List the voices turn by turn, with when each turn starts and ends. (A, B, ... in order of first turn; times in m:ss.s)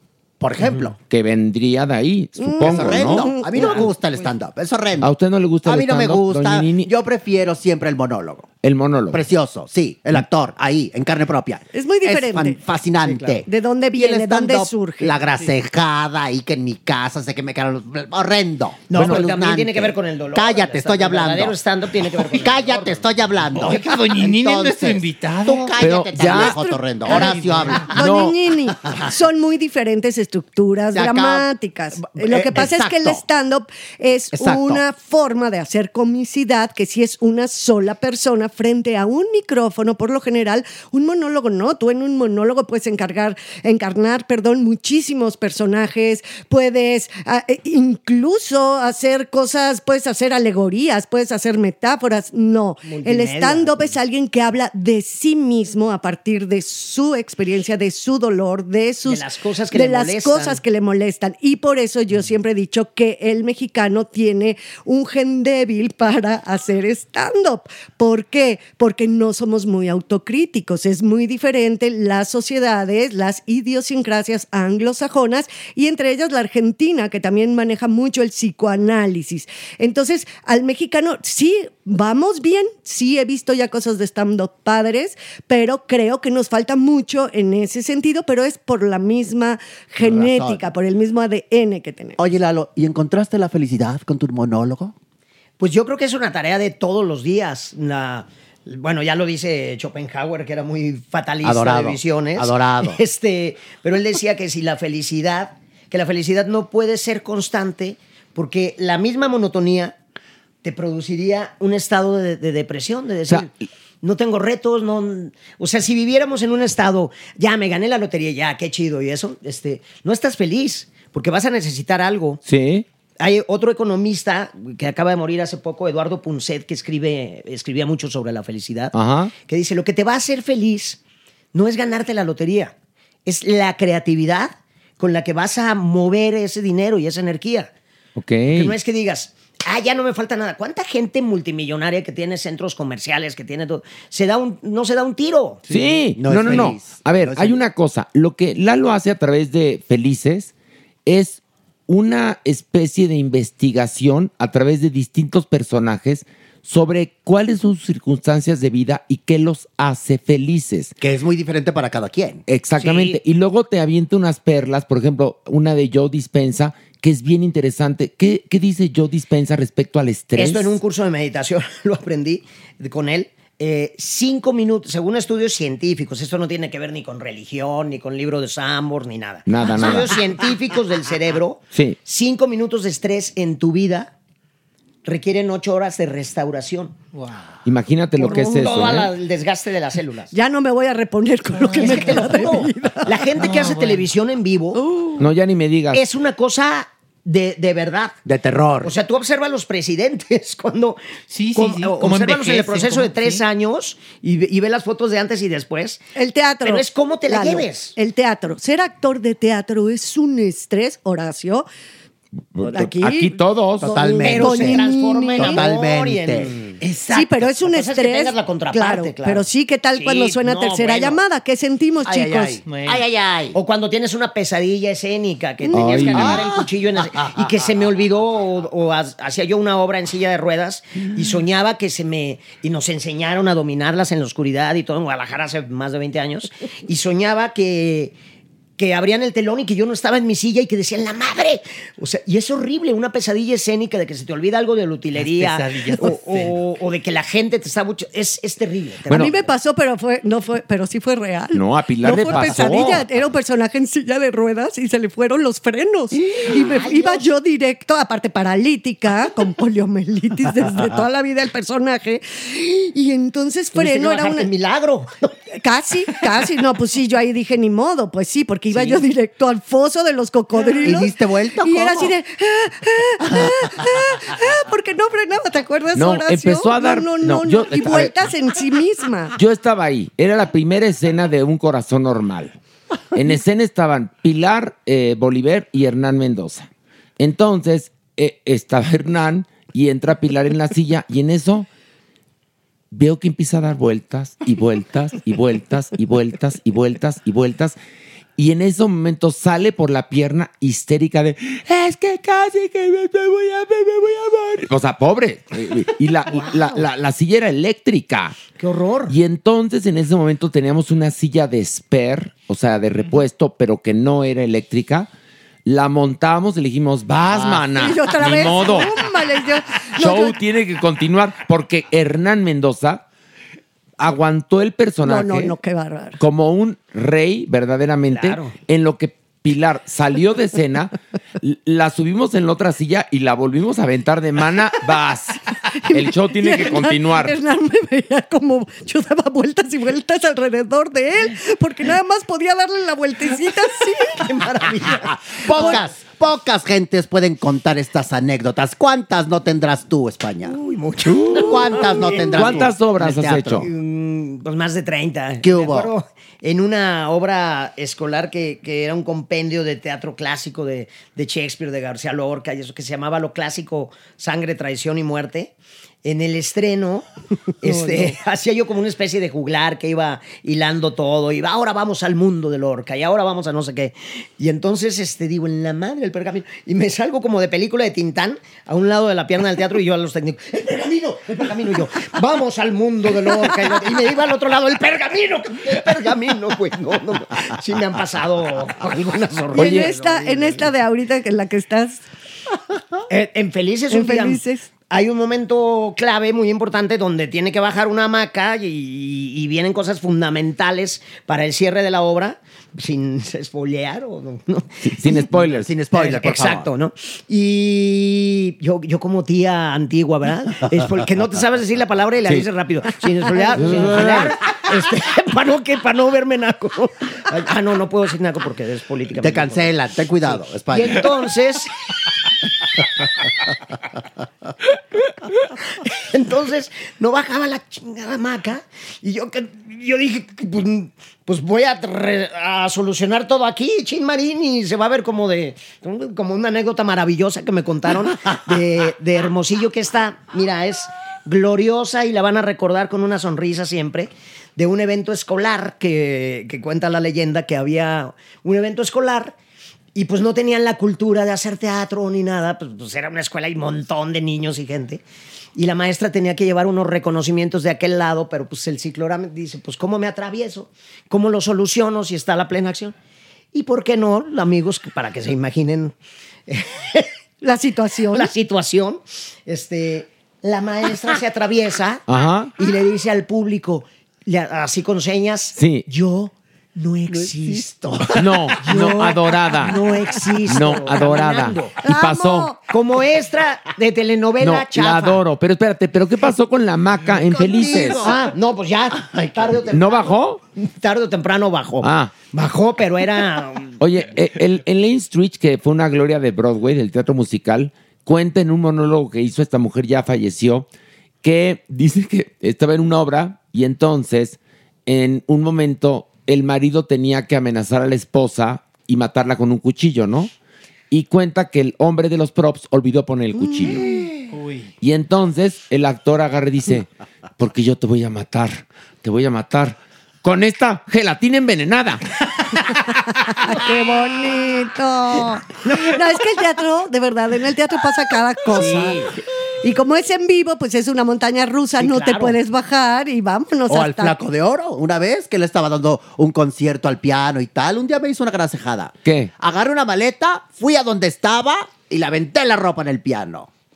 0:00.4-0:00.9 A
0:00.6-0:00.9 B
0:01.0-0:03.4 C
0:02.4-0:03.9 D
0:02.6-0:05.1 A
0:03.5-0:03.9 B
0:05.0-0:06.9 C
0:05.6-0:08.5 A
0:08.6-0:09.2 C
0:09.1-0:27.9 A
0:11.7-0:12.6 D
0:13.0-0:13.4 B
0:13.4-0:15.2 D
0:18.9-0:23.1 B
0:18.9-0:19.3 C
0:23.5-0:25.9 E
0:25.8-0:26.6 C
0:26.2-1:32.2 D
0:27.0-0:27.9 E
0:27.9-0:28.4 C
0:28.8-0:29.1 A
0:30.9-0:33.2 A
0:34.3-0:34.8 A
0:52.8-0:53.9 B
0:59.0-1:00.6 B
1:30.0-1:30.7 A
1:32.2-1:34.9 A
1:35.6-1:49.9 B
1:41.4-1:43.0 A
1:50.6-1:53.5 B
1:54.0-2:02.4 B
2:02.4-2:02.8 C
2:03.2-2:11.0 B
2:08.9-2:09.3 C
2:11.5-2:12.7 B
2:13.2-2:17.7 B
2:18.2-2:18.7 C
2:18.5-2:25.6 B
2:25.7-2:30.5 C
2:25.7-2:27.6 A
2:31.0-2:40.9 C
2:41.0-2:42.4 A
2:42.5-2:50.8 C
2:42.8-2:43.2 B
2:50.4-3:04.1 B
2:59.4-3:00.2 C
3:01.7-3:02.0 C
3:05.0-3:07.0 B
3:07.1-3:07.6 E
3:07.6-3:09.1 C
3:08.2-3:09.0 D
3:08.2-3:10.3 B
3:10.3-3:13.2 D
3:11.5-3:12.6 E
3:11.8-3:14.8 B
3:13.3-3:14.1 E
3:14.7-3:15.2 D
3:15.2-3:16.0 C
3:15.9-3:18.2 B
3:18.2-3:18.9 A
3:18.8-3:21.0 B
3:21.3-3:23.4 E
3:21.5-3:26.0 B
3:26.2-3:31.6 D
3:26.6-3:28.0 B
3:32.5-3:34.0 C
3:32.6-3:35.6 D
3:33.8-3:36.5 A
3:34.2-3:36.8 B
3:36.8-3:37.6 E
3:37.1-3:42.6 D
3:37.6-3:39.4 B
3:40.0-3:41.2 B
3:42.0-3:43.6 A
3:42.6-3:43.1 E
3:42.9-3:58.1 B
3:45.7-3:46.0 D
3:45.7-3:46.4 C
3:46.2-3:46.6 A
3:58.8-4:09.5 B
4:05.1-4:06.6 E
4:09.1-4:09.3 C
4:09.1-4:24.5 D
4:11.5-4:13.0 C
4:16.3-4:17.3 B
4:23.7-4:25.3 B
4:25.6-4:39.4 D
4:28.7-4:29.0 B
4:30.8-4:32.1 A
4:35.9-4:38.2 C
4:39.4-4:42.6 C
4:43.1-4:51.7 C
4:52.9-4:57.8 C
4:58.4-5:08.4 C
5:08.6-5:09.1 B
5:09.1-5:15.1 C
5:15.6-5:19.0 C
5:17.6-5:20.4 D
5:19.9-5:23.0 C
5:24.0-5:25.6 C
5:25.0-5:26.2 D
5:26.2-5:37.4 C
5:28.1-5:28.5 B
5:35.8-5:44.3 D
5:44.2-5:45.8 B
5:45.4-5:45.8 C
5:45.4-5:50.5 A
5:45.5-5:45.8 D
5:50.4-5:52.7 B
5:51.0-5:51.7 C
5:51.3-5:53.6 A
5:52.2-5:53.7 C
5:53.6-6:05.5 B
5:55.4-5:55.9 A
6:06.0-6:07.0 B
6:07.6-6:30.7 B
6:07.7-6:08.0 D
6:29.5-6:29.9 C
6:29.5-6:32.0 D
6:33.1-6:45.2 B
6:33.9-6:34.7 D
6:44.8-6:45.7 C
6:45.3-6:46.7 A
6:45.9-6:59.8 B
6:53.6-6:54.3 C
6:59.2-7:01.1 A
7:00.7-7:01.7 B
7:06.1-7:29.3 B
7:29.9-7:35.0 B
7:35.6-7:42.9 B
7:43.5-7:45.9 B
7:46.5-7:47.1 B
7:47.4-7:48.3 D
7:48.1-7:52.0 B
7:52.1-7:52.5 C
7:52.6-8:01.8 B
7:55.5-7:55.9 C
7:57.1-7:57.6 A
7:58.1-7:59.8 C
8:00.4-8:02.5 C
8:01.8-8:02.6 D
8:02.7-8:05.2 B
8:04.4-8:08.1 C
8:07.2-8:08.3 A
8:07.9-8:13.8 B
8:09.1-8:09.4 A
8:09.7-8:10.4 C
8:11.8-8:12.1 C
8:13.8-8:20.7 C
8:21.2-8:30.3 C
8:30.9-8:33.9 C
8:33.4-8:34.0 D
8:34.3-8:34.7 E
8:34.8-8:42.0 C
8:43.4-8:49.0 D
8:48.5-8:49.1 B
8:49.6-8:54.2 D
8:51.7-8:52.4 B
8:53.7-9:03.5 A
8:59.0-8:59.3 C